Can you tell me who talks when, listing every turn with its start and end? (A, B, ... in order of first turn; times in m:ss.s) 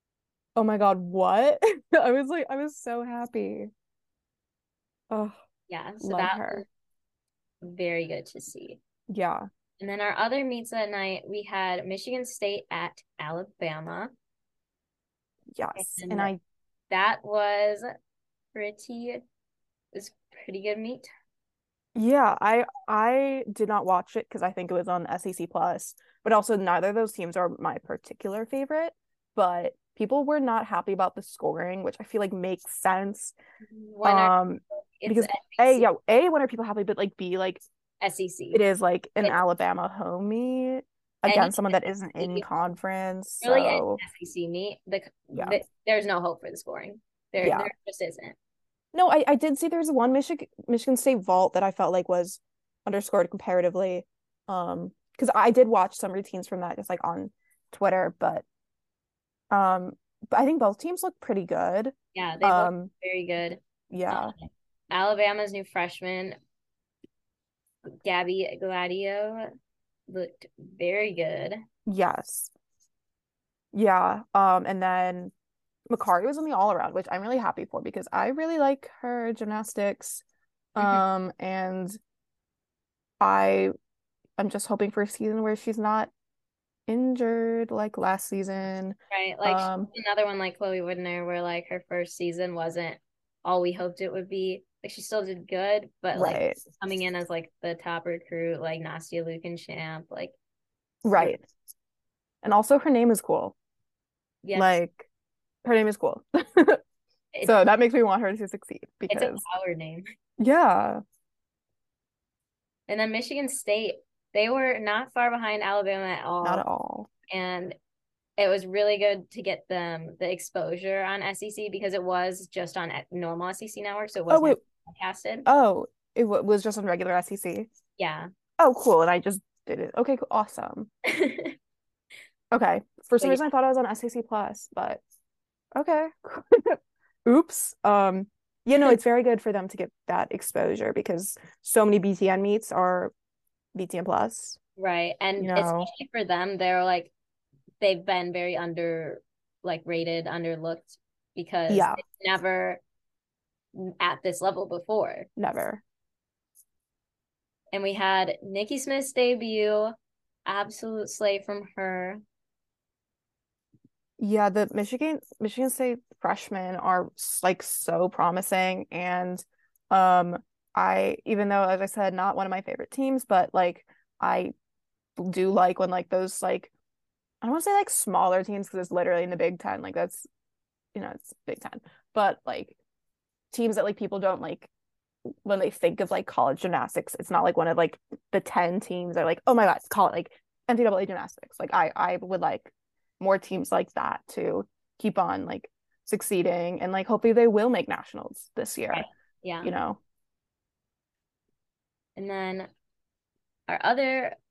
0:00.6-0:03.7 A
0:05.1-0:05.4 A
0:05.7-0:06.7 B
0:06.0-0:06.6 A
0:07.6-0:08.8 B
0:09.1-0:09.4 A
0:09.8-0:14.1 B
0:15.5-0:16.4 A
0:15.8-0:16.3 B
0:16.9-0:17.9 B
0:18.5-0:19.2 B
0:19.9-0:21.1 B
0:21.9-0:33.3 A
0:33.7-0:35.9 B
0:34.0-0:37.6 A
0:38.0-0:38.6 B
0:38.5-0:44.0 A
0:41.3-0:42.4 B
0:43.4-0:48.4 B
0:45.3-0:45.6 A
0:47.4-0:47.7 A
0:48.9-0:58.4 A
0:59.5-1:02.9 A
1:02.1-1:06.4 B
1:03.9-1:04.3 A
1:08.0-1:09.5 B
1:10.1-1:11.6 B
1:11.8-1:12.5 A
1:13.7-1:15.3 A
1:15.9-1:20.2 A
1:20.7-1:22.0 A
1:23.2-1:23.7 A
1:24.4-1:26.1 A
1:26.9-1:29.9 A
1:29.1-1:40.3 B
1:36.1-1:36.6 A
1:41.0-1:41.4 A
1:42.4-1:43.5 A
1:44.4-1:44.8 B
1:44.5-1:45.0 A
1:45.6-1:46.8 A
1:47.3-1:47.6 B
1:47.4-1:49.4 A
1:49.1-1:50.0 B
1:50.4-1:51.0 A
1:52.9-1:56.6 B
1:56.4-1:57.1 A
1:57.3-1:57.8 B
1:58.4-2:05.5 B
2:04.3-2:04.6 A
2:05.4-2:07.7 A
2:08.0-2:08.3 B
2:08.6-2:10.9 A
2:11.0-2:11.6 B
2:12.5-2:15.0 A
2:15.7-2:23.1 A
2:23.7-2:24.6 A
2:24.8-2:27.1 B
2:25.4-2:25.9 A
2:27.8-2:32.8 B
2:31.7-2:32.0 A
2:33.7-2:35.3 B
2:35.4-2:35.8 A
2:37.7-2:39.9 B
2:40.4-2:42.2 B
2:44.2-2:54.5 A
2:55.2-2:56.7 A
2:57.4-3:00.2 A
3:00.9-3:02.8 A
3:03.5-3:04.7 A
3:05.4-3:19.0 A
3:18.9-3:19.7 B
3:19.6-3:20.0 A
3:22.2-3:22.7 B
3:23.7-3:24.4 B